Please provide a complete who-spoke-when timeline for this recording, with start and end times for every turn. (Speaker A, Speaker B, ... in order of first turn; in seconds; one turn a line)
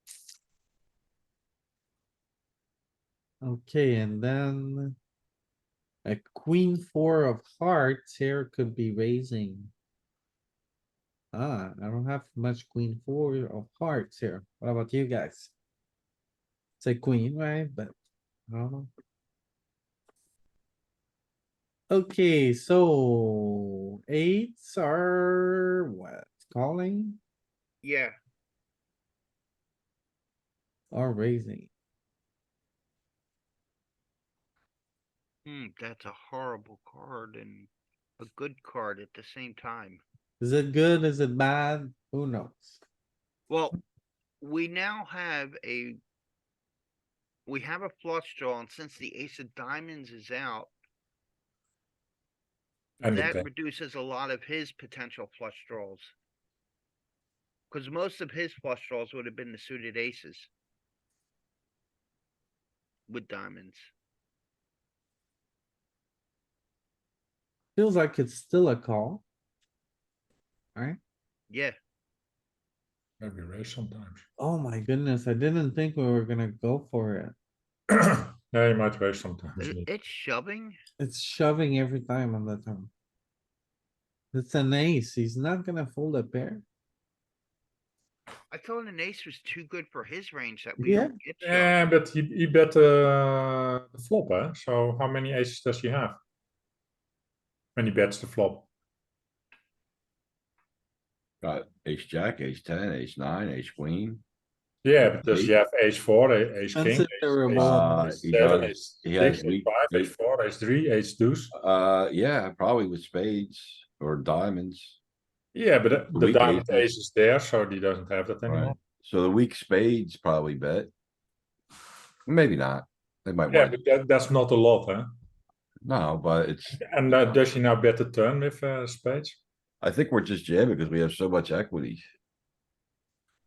Speaker A: 3.4-5.0
Speaker A: 6.0-9.7
Speaker A: 11.3-15.5
Speaker A: 16.8-17.9
Speaker A: 18.5-18.9
Speaker A: 21.9-27.2
Speaker B: 27.8-28.2
Speaker A: 30.9-31.7
Speaker B: 35.5-40.0
Speaker A: 40.4-42.8
Speaker B: 43.5-43.8
Speaker B: 44.4-46.0
Speaker B: 47.5-50.7
Speaker C: 53.0-53.5
Speaker B: 53.0-56.1
Speaker B: 57.7-60.5
Speaker B: 63.1-63.9
Speaker A: 67.8-69.2
Speaker B: 71.5-71.8
Speaker C: 73.2-74.2
Speaker A: 74.4-77.3
Speaker C: 77.9-79.9
Speaker B: 79.6-80.8
Speaker A: 81.0-82.9
Speaker A: 84.3-86.7
Speaker B: 88.5-91.7
Speaker A: 90.8-91.1
Speaker C: 91.4-96.2
Speaker C: 97.8-98.7
Speaker D: 101.4-104.2
Speaker C: 104.8-111.5
Speaker D: 105.2-105.6
Speaker A: 106.8-108.0
Speaker D: 107.6-110.1
Speaker D: 111.5-115.0
Speaker C: 115.5-118.8
Speaker D: 116.1-116.9
Speaker D: 118.5-120.9
Speaker D: 122.3-123.8
Speaker C: 123.5-125.1
Speaker D: 125.8-127.4
Speaker C: 126.7-129.4
Speaker D: 129.8-132.1